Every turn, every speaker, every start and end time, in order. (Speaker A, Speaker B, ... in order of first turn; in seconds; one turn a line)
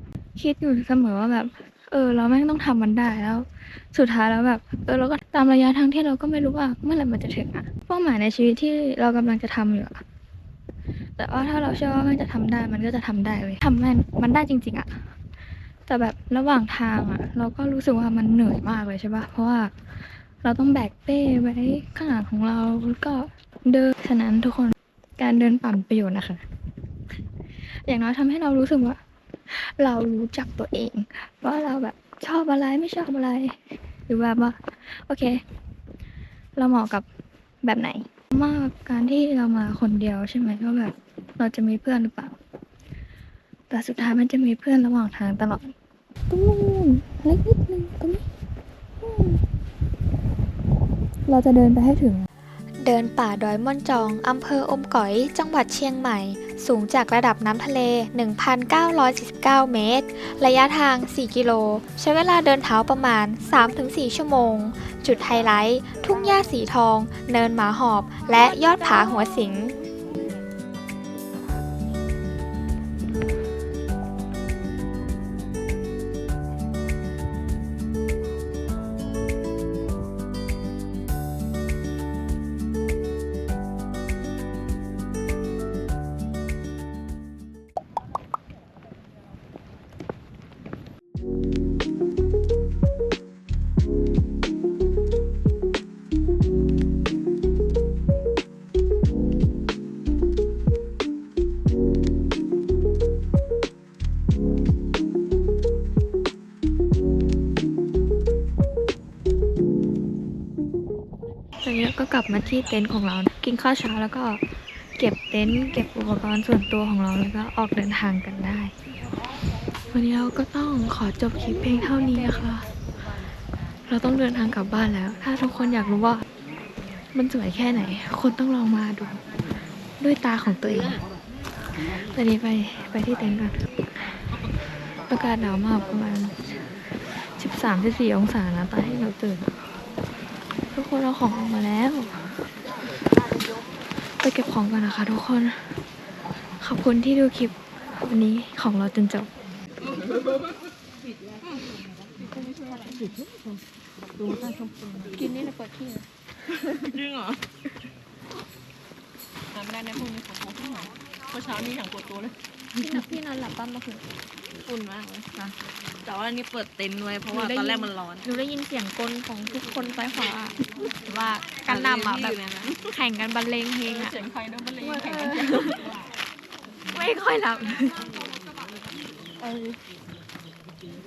Speaker A: 0.3-10.0
Speaker A: 11.2-15.0
Speaker A: 15.9-19.7
Speaker A: 20.4-26.4
Speaker A: 27.9-29.0
Speaker A: 29.5-33.5
Speaker A: 34.1-35.4
Speaker A: 36.5-37.0
Speaker A: 37.6-42.4
Speaker A: 43.7-45.7
Speaker A: 46.3-48.2
Speaker A: 49.0-49.4
Speaker A: 51.2-52.3
Speaker B: 52.8-69.5
Speaker A: 64.8-67.2
Speaker A: 68.1-69.7
Speaker A: 111.6-114.4
Speaker A: 115.0-118.7
Speaker A: 119.9-122.7
Speaker A: 123.9-126.2
Speaker A: 127.1-129.2
Speaker A: 130.0-131.0
Speaker A: 132.0-133.6
Speaker A: 135.1-136.4
Speaker A: 137.4-139.6
Speaker A: 140.7-142.2
Speaker A: 144.2-145.6
Speaker A: 146.6-149.3
Speaker C: 152.4-153.1
Speaker C: 155.2-155.9
Speaker C: 156.8-157.4
Speaker C: 159.5-162.3
Speaker A: 162.8-164.0
Speaker C: 164.7-165.3
Speaker C: 166.0-168.3
Speaker A: 167.3-170.5
Speaker A: 171.1-172.4
Speaker C: 171.6-172.9
Speaker A: 172.9-174.2
Speaker C: 173.9-175.9
Speaker A: 174.8-175.9
Speaker A: 176.9-178.0